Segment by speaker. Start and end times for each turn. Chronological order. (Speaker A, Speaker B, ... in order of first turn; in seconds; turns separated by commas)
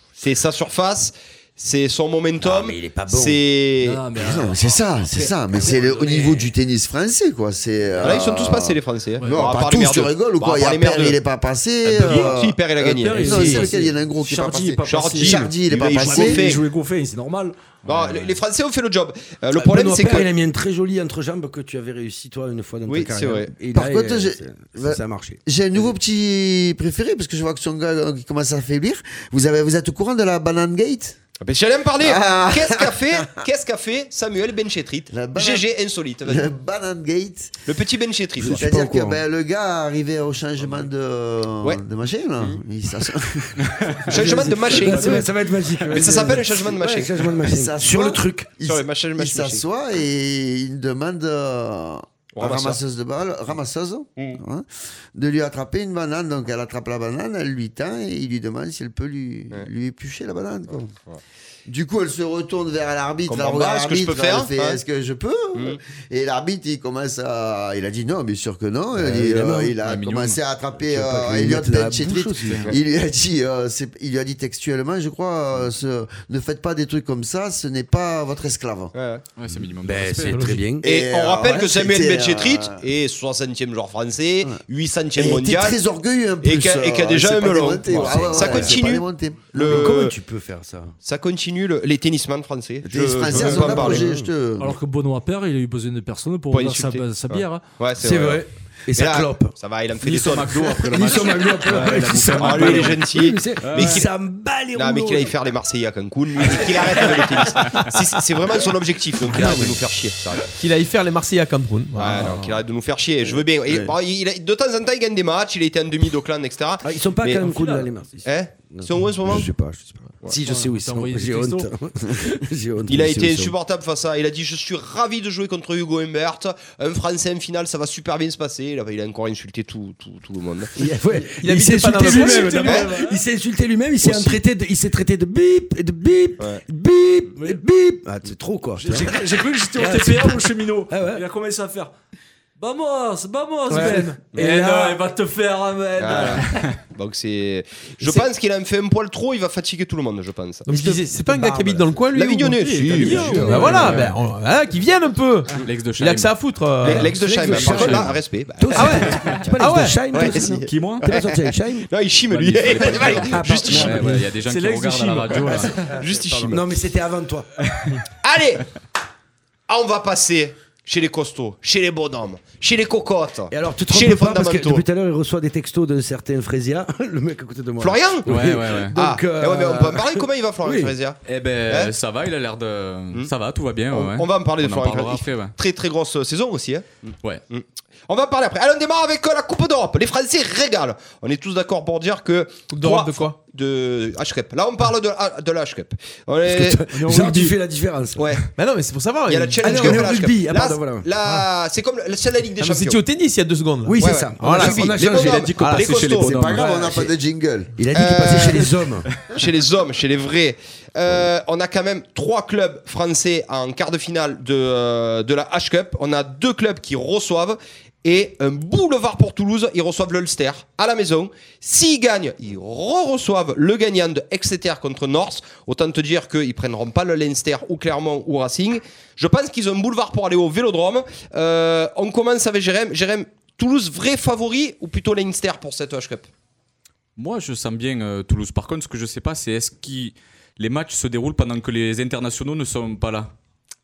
Speaker A: 0.2-4.0, Speaker B: 2.4-3.4, Speaker C: 3.8-6.4, Speaker D: 4.2-12.6, Speaker B: 5.5-6.3, Speaker A: 8.0-11.2, Speaker C: 9.2-9.5, Speaker C: 11.9-17.6, Speaker A: 11.9-13.6, Speaker B: 13.1-13.8, Speaker D: 13.2-16.5, Speaker A: 14.9-16.6, Speaker E: 17.9-18.3, Speaker A: 17.9-20.3, Speaker B: 19.5-25.9, Speaker A: 22.9-23.5, Speaker D: 23.7-31.2, Speaker A: 31.4-36.5, Speaker D: 32.0-33.4, Speaker D: 35.1-35.6, Speaker D: 36.2-37.6, Speaker A: 37.7-38.7, Speaker B: 38.4-39.2, Speaker D: 38.4-43.7, Speaker E: 43.6-44.0, Speaker B: 44.1-48.6, Speaker A: 44.1-45.3, Speaker E: 44.8-45.3, Speaker A: 45.9-47.1, Speaker D: 47.4-60.9, Speaker A: 48.6-49.6, Speaker A: 52.4-52.8, Speaker D: 61.7-78.9, Speaker A: 63.3-64.8, Speaker B: 69.0-69.8, Speaker E: 69.8-70.4, Speaker B: 70.8-72.7, Speaker A: 78.9-79.2, Speaker E: 79.4-80.6, Speaker B: 79.8-80.9, Speaker C: 80.3-80.6, Speaker D: 80.8-82.8, Speaker A: 80.8-85.8, Speaker D: 85.2-89.7, Speaker A: 86.4-90.2, Speaker B: 87.9-88.8, Speaker B: 89.5-91.0, Speaker A: 91.0-94.0, Speaker D: 92.8-94.8, Speaker B: 93.3-94.3, Speaker C: 94.6-97.6, Speaker A: 96.5-98.4, Speaker B: 98.0-99.5, Speaker A: 99.0-100.6, Speaker E: 100.0-103.1, Speaker B: 100.3-105.3, Speaker A: 101.7-104.1, Speaker E: 103.6-104.1, Speaker A: 104.8-110.5, Speaker B: 106.4-107.8, Speaker B: 109.2-109.8, Speaker F: 110.6-112.3, Speaker A: 112.0-117.5, Speaker B: 116.8-123.5, Speaker C: 117.4-117.9, Speaker A: 118.2-119.5, Speaker C: 120.5-121.7, Speaker A: 122.9-130.7, Speaker B: 130.8-141.2, Speaker F: 131.4-132.8, Speaker C: 132.0-133.2, Speaker A: 134.0-134.4, Speaker C: 137.4-137.6, Speaker C: 138.8-141.9, Speaker C: 142.6-146.7, Speaker B: 143.7-145.0, Speaker A: 146.0-151.0, Speaker F: 150.7-157.8, Speaker B: 151.1-152.0, Speaker A: 152.1-153.7, Speaker C: 152.6-154.0, Speaker B: 152.8-154.1, Speaker E: 153.8-154.1, Speaker E: 155.6-156.4, Speaker A: 156.8-163.9, Speaker B: 156.8-161.9, Speaker E: 157.6-158.1, Speaker F: 158.7-160.1, Speaker E: 159.2-159.4, Speaker E: 160.7-161.1, Speaker E: 162.3-165.8, Speaker B: 162.8-164.3, Speaker C: 163.3-165.9, Speaker B: 165.5-167.5, Speaker A: 165.9-166.7, Speaker A: 168.2-168.7, Speaker A: 169.7-174.8, Speaker B: 173.5-180.9, Speaker A: 177.8-178.3, Speaker E: 178.3-179.0, Speaker A: 178.9-181.9, Speaker E: 181.3-185.6, Speaker A: 183.9-196.8, Speaker F: 192.7-193.4, Speaker B: 196.4-198.3, Speaker C: 196.9-197.6, Speaker A: 198.2-198.5, Speaker F: 198.6-200.1, Speaker A: 199.3-203.0, Speaker B: 199.6-201.1, Speaker F: 202.6-206.1, Speaker B: 203.9-205.7, Speaker A: 204.0-206.5, Speaker E: 205.1-207.0, Speaker D: 206.2-207.7, Speaker B: 206.5-207.1, Speaker B: 207.8-209.2, Speaker A: 207.9-208.8, Speaker A: 209.3-236.3, Speaker E: 237.2-243.3